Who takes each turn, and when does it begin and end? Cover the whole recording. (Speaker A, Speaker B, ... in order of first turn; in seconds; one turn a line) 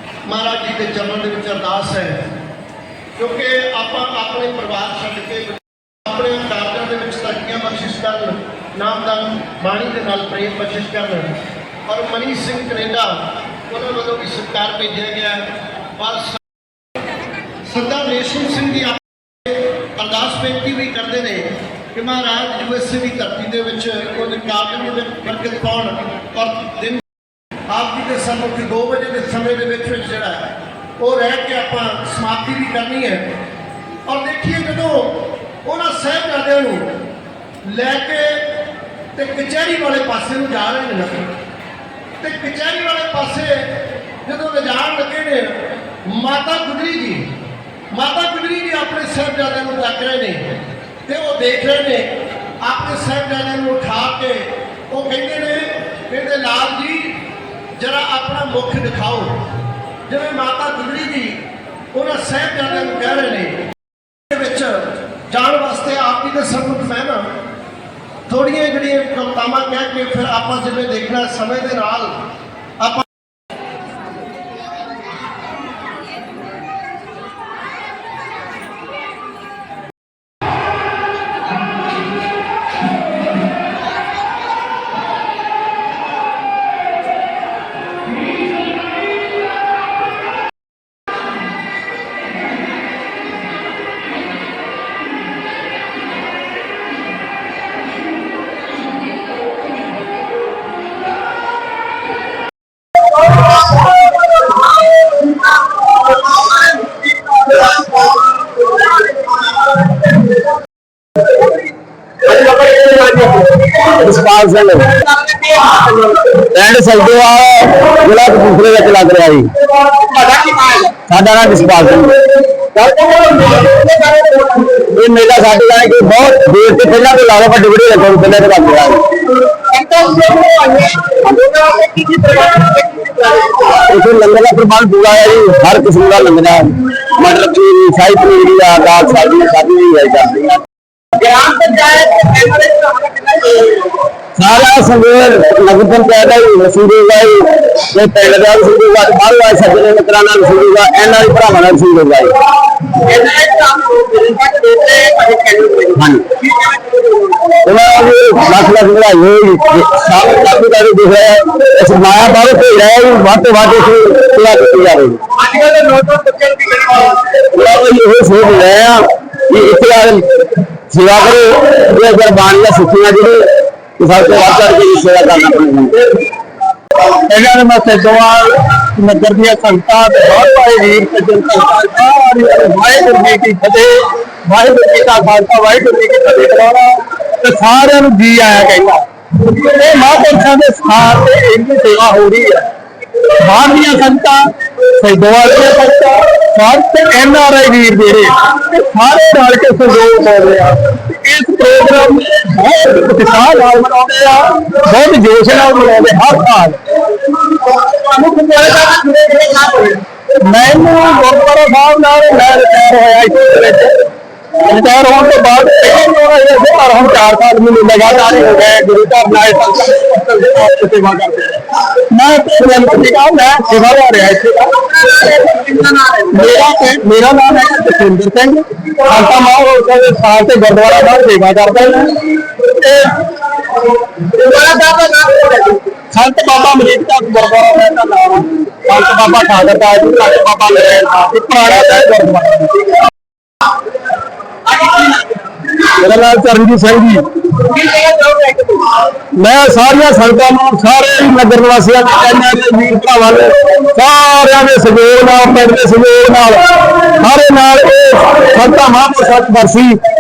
Speaker A: 0.2-2.4
Speaker A: 3.2-16.4
Speaker A: 17.6-27.0
Speaker A: 27.7-33.4
Speaker A: 34.1-37.0
Speaker A: 37.7-41.4
Speaker A: 42.2-47.3
Speaker A: 47.9-59.5
Speaker A: 60.1-63.7
Speaker A: 64.3-67.3
Speaker A: 68.3-72.3
Speaker A: 72.8-73.1
Speaker B: 112.3-113.5
Speaker C: 113.8-114.9
Speaker B: 115.1-116.2
Speaker C: 116.3-119.5
Speaker B: 120.1-120.9
Speaker C: 121.0-122.2
Speaker B: 122.8-124.8
Speaker C: 124.8-129.1
Speaker B: 129.7-133.6
Speaker C: 133.6-140.6
Speaker B: 141.2-143.8
Speaker C: 144.4-152.4
Speaker B: 153.0-155.8
Speaker C: 155.9-156.3
Speaker B: 156.4-157.4
Speaker C: 157.5-165.2
Speaker D: 165.5-167.2
Speaker C: 167.3-176.2
Speaker D: 177.1-192.7
Speaker D: 193.2-206.8
Speaker D: 208.1-209.6
Speaker B: 208.2-210.0
Speaker D: 210.4-214.1
Speaker D: 214.6-233.3
Speaker B: 225.4-226.2
Speaker D: 234.4-235.1
Speaker B: 234.4-235.8
Speaker D: 236.1-243.0
Speaker D: 245.8-247.2
Speaker B: 247.8-248.7
Speaker D: 249.4-260.0